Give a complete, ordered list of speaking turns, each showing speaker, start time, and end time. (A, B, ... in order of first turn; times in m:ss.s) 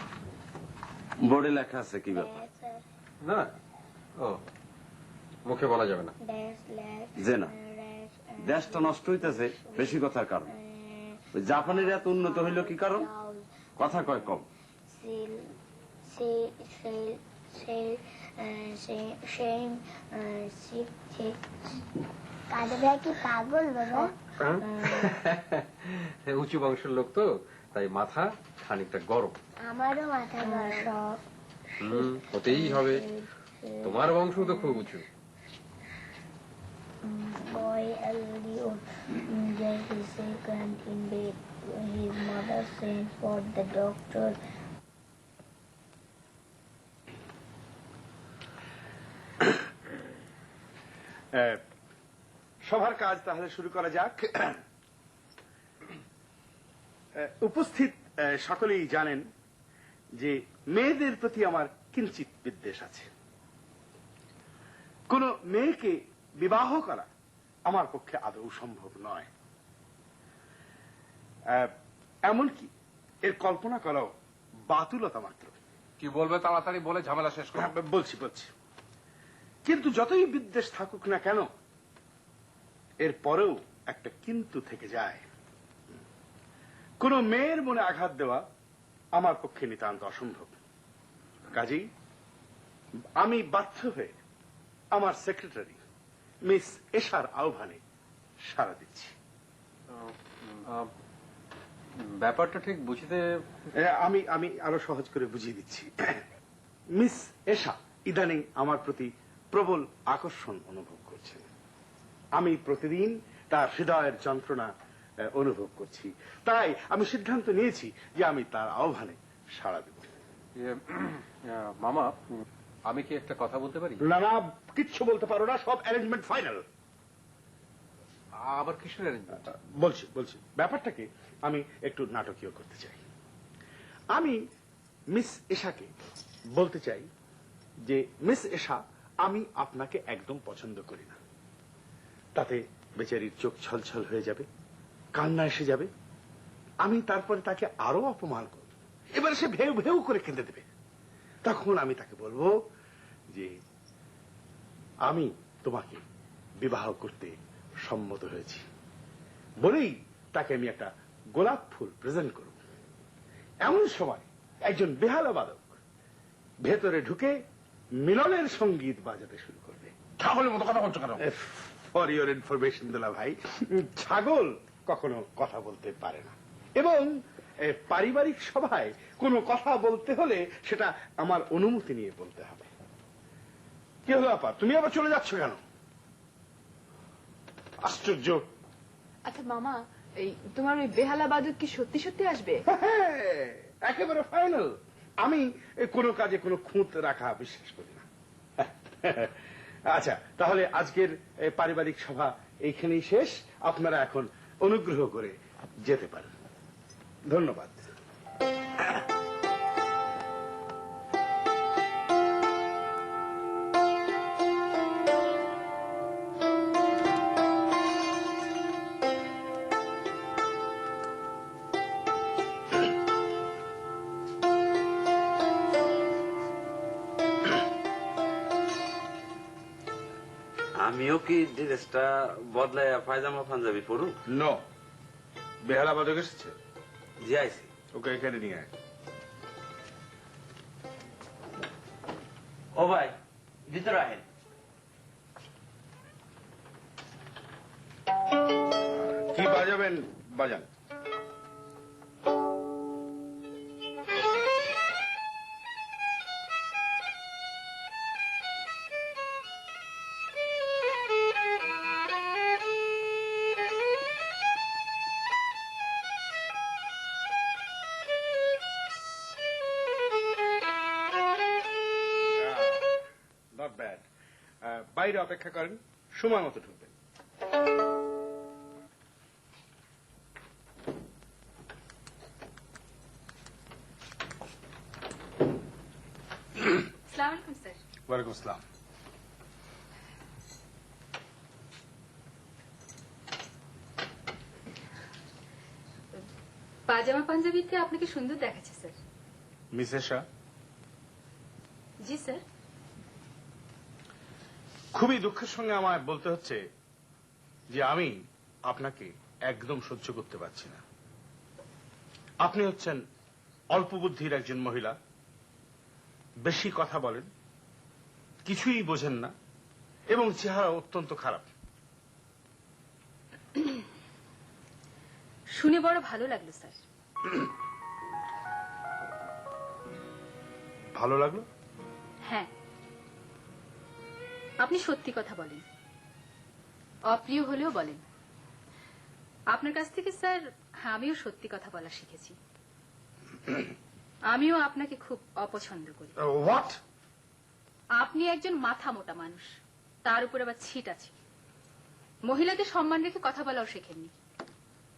0:01.3-0:02.4 A
0:02.1-0:02.8 B
0:03.2-0:03.5 C
0:05.4-0:06.1 C
0:06.2-0:13.4 B
0:07.2-0:07.5 A
0:08.4-0:10.5 A
0:11.4-0:13.1 A
0:13.8-0:14.4 A
0:14.9-0:15.5 B
0:16.0-0:21.8 B
0:22.5-0:25.2 B
0:24.4-0:29.4 C
0:29.6-0:31.2 B
0:31.8-0:33.0 C
0:31.8-0:34.8 B
0:33.8-0:35.0 C
0:37.0-0:44.4 B
0:51.3-0:51.6 D
0:52.7-0:54.6 D
0:57.2-0:59.3 D
1:00.2-1:03.1 D
1:05.1-1:07.1 D
1:07.7-1:09.3 D
1:12.3-1:12.7 D
1:13.2-1:14.1 D
1:14.7-1:15.5 D
1:16.0-1:17.7 E
1:17.6-1:18.5 D
1:19.6-1:21.5 D
1:23.0-1:25.2 D
1:27.0-1:28.4 D
1:29.2-1:30.5 D
1:31.5-1:31.9 D
1:33.2-1:34.2 D
1:34.9-1:35.8 D
1:36.4-1:37.8 D
1:38.5-1:39.1 D
1:40.0-1:40.9 C
1:42.0-1:43.2 C
1:43.7-1:46.2 D
1:47.0-1:51.4 D
1:52.4-1:54.7 D
1:55.2-2:00.1 D
2:00.6-2:02.2 C
2:02.9-2:04.0 C
2:04.0-2:06.6 D
2:08.4-2:09.5 C
2:09.6-2:13.0 D
2:14.1-2:14.4 D
2:15.1-2:15.9 D
2:16.5-2:17.1 D
2:17.8-2:21.2 D
2:22.4-2:24.5 D
2:25.1-2:25.9 D
2:26.8-2:30.6 D
2:31.4-2:32.5 D
2:33.3-2:33.6 D
2:35.0-2:36.0 D
2:36.6-2:38.6 D
2:39.6-2:42.6 D
2:43.6-2:45.8 D
2:46.6-2:47.4 D
2:48.0-2:50.0 D
2:50.2-2:51.2 E
2:51.2-3:02.7 D
3:04.0-3:05.6 D
3:07.8-3:08.5 D
3:09.3-3:12.6 F
3:12.7-3:18.0 D
3:18.6-3:19.3 D
3:19.9-3:26.3 D
3:27.3-3:27.8 D
3:50.8-3:54.1 A
3:54.3-3:54.6 D
3:55.6-3:56.6 D
3:57.2-3:57.7 A
3:57.9-3:58.7 D
4:02.8-4:03.2 A
4:03.7-4:04.2 A
4:09.0-4:10.7 D
4:32.3-4:34.0 D
4:34.6-4:36.9 D
4:47.1-4:47.8 G
4:48.1-4:48.6 D
4:56.9-4:58.9 G
4:59.7-5:00.2 D
5:02.0-5:02.4 G
5:04.9-5:06.6 D
5:07.7-5:10.8 D
5:12.4-5:13.0 D
5:13.7-5:15.0 D
5:16.4-5:17.3 D
5:18.4-5:19.3 D
5:20.1-5:21.5 D
5:25.6-5:26.8 G
5:31.0-5:31.4 D
5:34.6-5:35.6 G
5:37.1-5:38.0 G
5:39.5-5:42.4 G
5:44.3-5:46.1 G
5:46.2-5:46.8 D
5:48.0-5:49.5 G
5:50.0-5:51.1 G
5:52.3-5:54.1 G